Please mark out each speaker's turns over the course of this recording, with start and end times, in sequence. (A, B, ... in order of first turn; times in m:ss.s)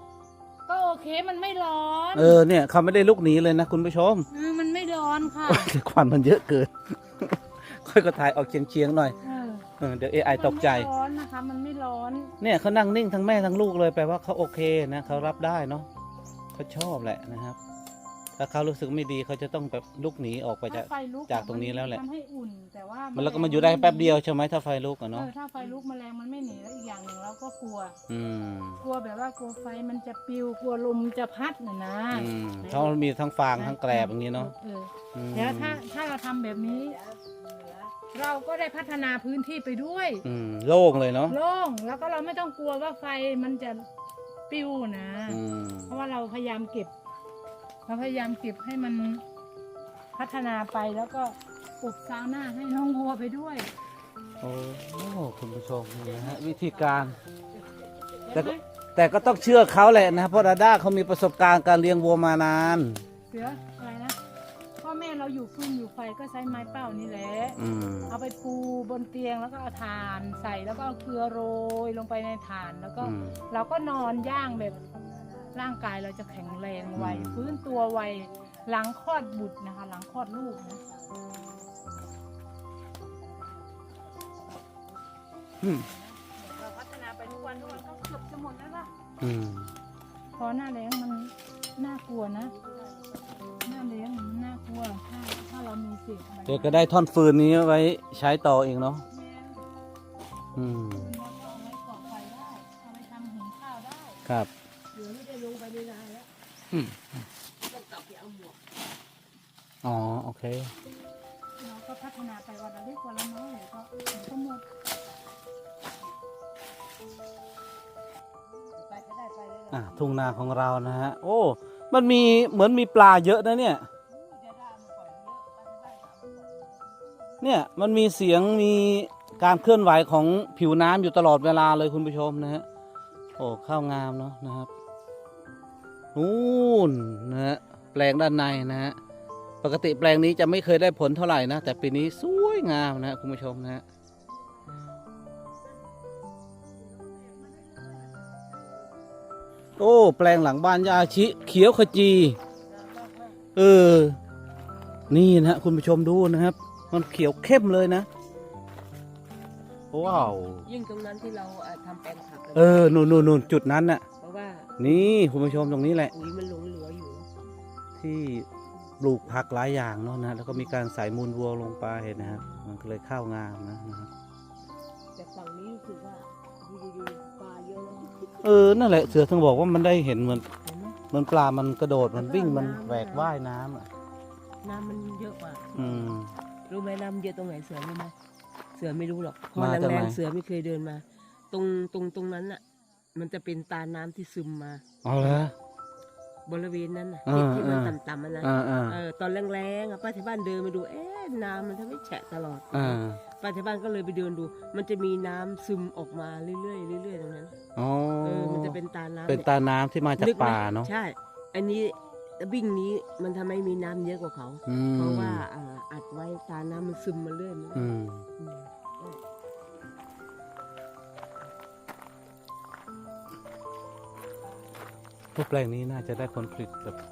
0:00.7-0:02.4 A
0:02.1-0:04.3 B
0:04.3-0:05.7 A
0:05.4-0:09.2 B
0:09.2-0:09.6 A
0:09.8-0:10.9 B
0:10.2-0:12.3 A
0:12.4-0:15.9 B
0:16.5-0:17.6 B
0:18.4-0:22.0 B
0:20.7-0:24.2 A
0:23.1-0:25.3 B
0:25.1-0:28.0 A
0:28.1-0:28.8 B
0:28.8-0:32.9 A
0:32.1-0:34.5 B
0:33.6-0:37.0 A
0:35.1-0:35.8 B
0:36.5-0:38.0 C
0:38.1-0:40.2 A
0:40.2-0:41.4 B
0:41.3-0:43.9 A
0:44.5-0:46.9 A
0:45.3-0:45.9 B
0:47.9-0:49.2 A
0:50.1-0:53.7 A
0:54.4-0:57.2 B
0:56.0-0:57.2 C
0:58.3-0:58.6 A
0:58.3-1:03.0 B
0:59.3-1:00.4 C
1:03.3-1:04.2 A
1:04.8-1:14.8 A
1:07.6-1:08.2 B
1:13.0-1:13.4 B
1:13.6-1:18.6 C
1:15.5-1:20.8 A
1:16.9-1:17.6 B
1:20.5-1:22.1 C
1:23.0-1:24.8 C
1:25.6-1:25.9 B
1:25.8-1:28.9 A
1:29.2-1:29.7 B
1:30.4-1:32.5 A
1:32.5-1:33.6 C
1:33.6-1:36.9 A
1:36.4-1:39.0 B
1:39.1-1:39.4 A
1:40.6-1:41.1 B
1:40.9-1:44.2 A
1:44.9-1:46.3 C
1:46.7-1:47.1 B
1:47.6-1:48.6 C
1:49.8-1:50.7 B
1:51.6-1:54.6 A
1:58.7-2:00.8 C
1:59.7-2:03.8 B
2:04.1-2:07.1 C
2:07.4-2:12.6 B
2:13.4-2:14.7 B
2:16.1-2:19.0 B
2:19.6-2:23.8 B
2:27.0-2:28.7 C
2:29.8-2:32.4 B
2:32.7-2:33.4 C
2:33.6-2:34.2 B
2:35.1-2:38.1 B
2:36.8-2:37.1 C
2:38.2-2:38.6 C
2:39.9-2:40.6 B
2:40.0-2:43.6 C
2:42.5-2:44.0 B
2:44.2-2:45.1 C
2:44.8-2:46.1 B
2:46.1-2:47.3 C
2:48.0-2:48.5 B
2:49.0-2:54.1 B
2:50.5-2:50.7 C
2:52.2-2:52.6 C
2:55.1-2:59.0 C
2:58.4-3:00.5 B
3:00.4-3:01.0 C
3:01.1-3:03.9 B
3:02.1-3:03.3 C
3:04.6-3:06.1 C
3:05.8-3:06.3 B
3:06.7-3:08.1 C
3:08.7-3:12.6 C
3:09.6-3:10.2 B
3:13.1-3:15.5 C
3:15.0-3:15.5 B
3:16.4-3:27.6 C
3:17.2-3:19.0 B
3:22.7-3:23.2 B
3:27.8-3:30.9 B
3:28.2-3:29.5 C
3:30.2-3:39.2 C
3:34.6-3:35.4 B
3:37.7-3:38.3 B
3:45.3-3:47.0 B